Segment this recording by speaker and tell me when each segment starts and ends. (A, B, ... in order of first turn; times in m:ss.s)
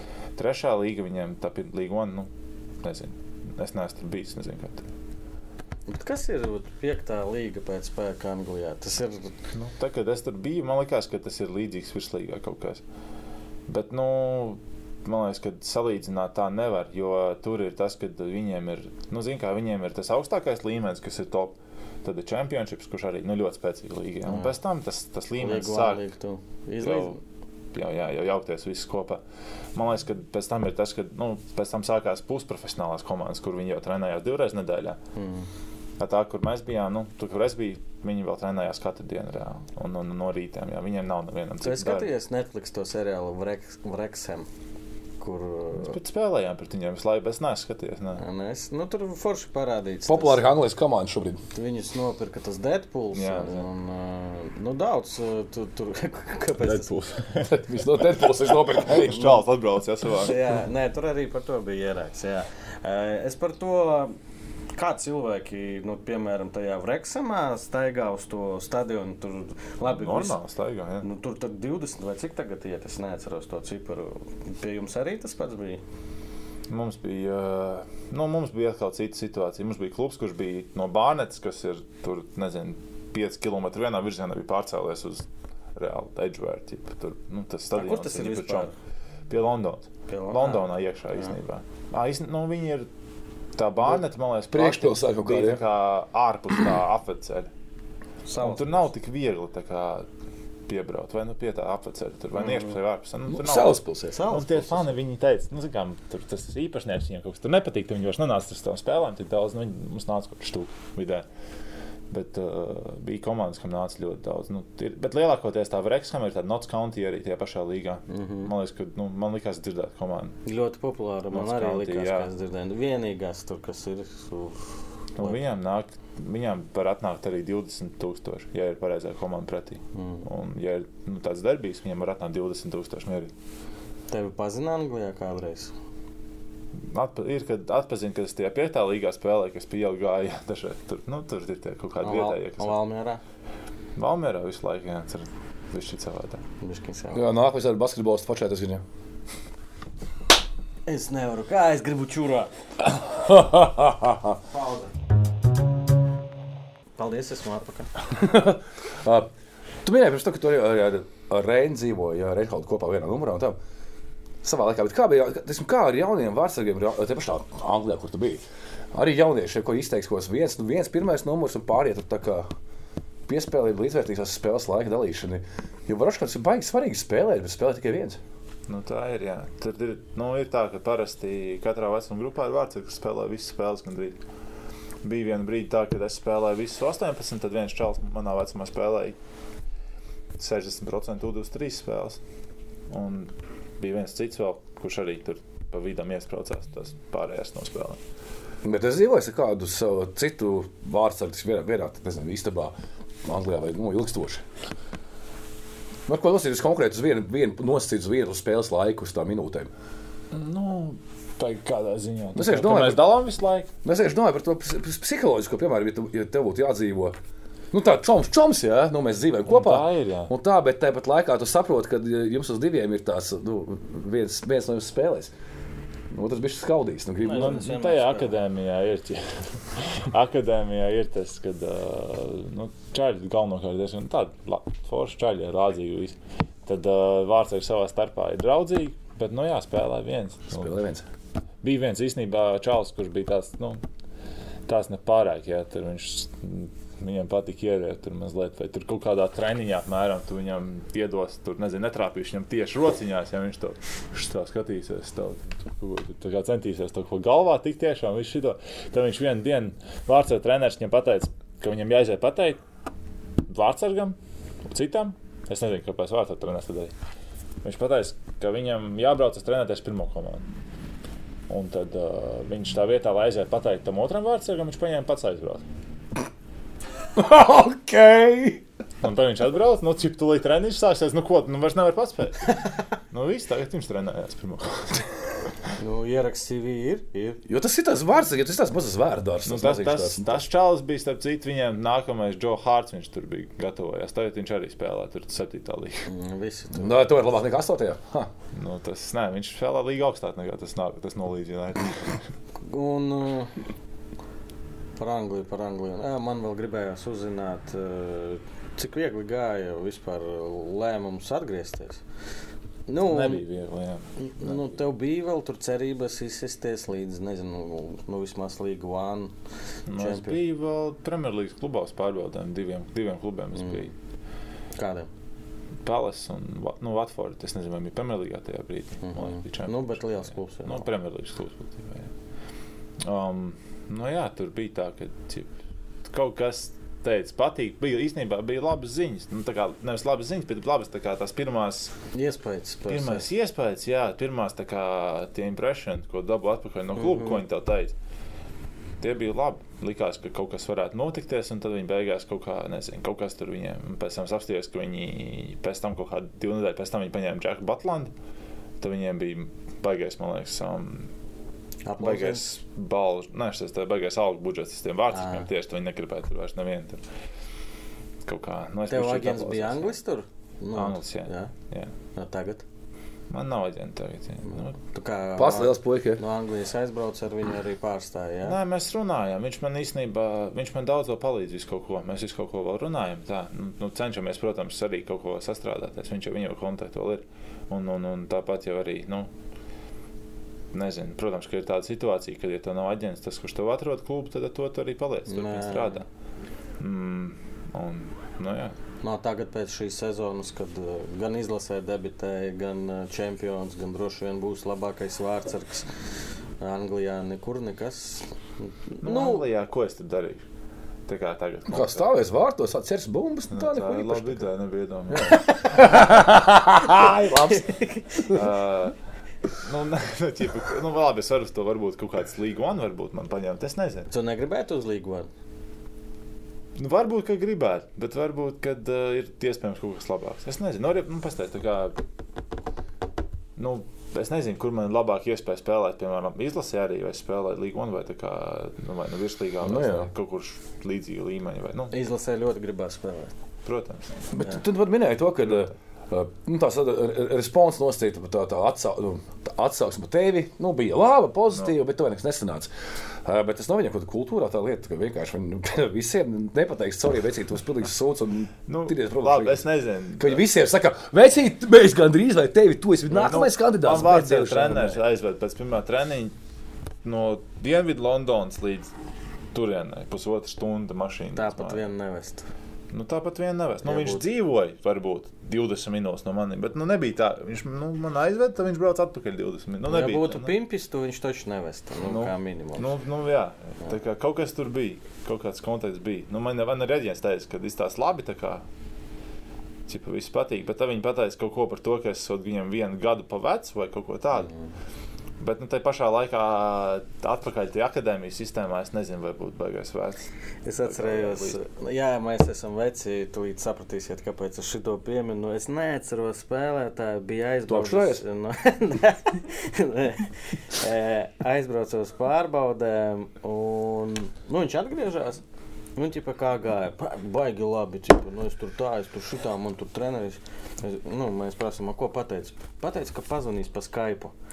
0:00.4-0:04.9 A
0:05.9-0:09.4 B
0:09.5-0:12.8 A
0:13.7-0:26.0 A
0:24.3-0:24.5 B
0:25.4-0:27.2 B
0:26.8-0:27.2 A
0:27.7-0:29.2 A
0:29.7-0:35.0 A
0:35.2-0:35.5 B
0:36.0-0:42.1 A
0:41.6-0:44.5 B
0:45.2-0:46.0 B
0:45.8-0:48.2 A
0:48.2-0:50.4 B
0:50.1-0:51.4 C
0:51.5-0:56.9 B
0:53.1-0:53.7 A
0:56.6-1:00.4 A
0:57.5-0:59.5 C
1:00.2-1:04.2 B
1:04.7-1:10.4 B
1:09.9-1:11.0 A
1:11.0-1:15.8 B
1:16.7-1:28.7 A
1:27.7-1:28.7 B
1:29.3-1:32.9 A
1:30.1-1:30.7 B
1:33.5-1:37.5 A
1:34.5-1:35.6 C
1:38.3-1:38.9 B
1:38.4-1:40.1 A
1:40.7-1:51.3 A
1:42.4-1:42.7 B
1:43.3-1:44.1 C
1:44.1-1:45.0 B
1:52.1-2:00.4 A
1:58.1-1:58.5 B
2:00.4-2:05.5 B
2:01.3-2:02.3 A
2:05.2-2:13.3 A
2:09.9-2:10.2 B
2:14.1-2:15.7 B
2:16.8-2:22.8 A
2:22.0-2:23.2 B
2:24.0-2:26.4 A
2:26.6-2:27.2 B
2:27.1-2:28.8 C
2:30.9-2:32.5 B
2:33.1-2:34.4 C
2:34.5-2:34.9 B
2:37.0-2:37.9 B
2:38.2-2:39.3 C
2:39.8-2:43.6 C
2:44.4-2:52.5 C
2:53.3-2:58.2 C
2:58.7-3:04.2 A
3:05.0-3:09.2 A
3:10.4-3:12.2 A
3:12.9-3:18.0 A
3:18.6-3:22.7 C
3:23.2-3:24.4 C
3:26.1-3:29.7 C
3:30.3-3:33.7 A
3:32.4-3:33.1 C
3:33.8-3:37.2 C
3:37.7-3:45.3 C
3:39.5-3:40.3 A
3:46.1-3:47.6 C
3:47.2-3:48.3 B
3:47.3-4:00.7 A
4:00.5-4:01.0 C
4:01.6-4:03.8 A
4:04.7-4:22.6 A
4:23.5-4:26.9 A
4:27.6-4:30.5 A
4:31.5-4:35.6 A
4:37.2-4:38.6 C
4:39.0-4:42.6 A
4:43.1-4:45.1 A
4:45.8-4:47.4 B
4:47.5-4:50.3 C
4:49.4-4:56.1 A
4:56.1-4:57.1 B
4:56.7-4:58.3 C
4:58.5-5:02.2 A
5:02.6-5:03.6 B
5:05.0-5:12.0 B
5:12.9-5:13.4 B
5:13.1-5:14.6 A
5:14.2-5:19.3 B
5:19.9-5:23.9 A
5:19.9-5:20.4 B
5:23.6-5:23.9 B
5:24.8-5:25.1 B
5:25.8-5:32.1 A
5:29.0-5:30.9 B
5:33.0-5:41.9 A
5:42.1-5:43.3 B
5:42.9-5:48.0 A
5:47.0-5:47.4 B
5:49.0-5:58.1 A
5:58.8-6:01.1 A
6:01.8-6:02.5 B
6:02.0-6:07.1 A
6:05.1-6:05.5 B
6:08.2-6:10.0 A
6:08.9-6:11.5 B
6:10.7-6:11.9 A
6:12.2-6:12.6 B
6:13.3-6:14.8 A
6:14.8-6:18.6 B
6:15.4-6:16.2 C
6:18.4-6:29.3 A
6:30.7-6:36.0 A
6:35.3-6:36.0 B
6:36.8-6:38.8 A
6:39.0-6:49.4 B
6:49.0-6:50.4 A
6:51.1-6:52.1 A
6:51.7-6:54.4 C
6:53.5-6:55.5 A
6:55.1-6:58.3 C
6:57.5-6:58.2 B
6:58.3-6:59.0 A
6:59.5-7:04.1 A
7:04.1-7:05.3 B
7:06.8-7:12.0 A
7:13.6-7:21.9 A
7:19.6-7:20.1 C
7:21.9-7:23.3 B
7:23.6-7:24.3 A
7:24.3-7:32.7 C
7:33.2-7:45.0 C
7:38.7-7:40.4 A
7:43.1-7:46.4 A
7:47.0-7:48.9 A
7:49.5-7:51.8 A
7:51.4-7:52.5 B
7:52.9-8:00.5 A
7:53.8-7:54.2 B
7:59.9-8:02.9 B
8:02.0-8:08.6 A
8:09.9-8:14.5 A
8:15.4-8:21.6 A
8:20.6-8:35.4 B
8:27.7-8:28.2 C
8:36.0-8:44.3 B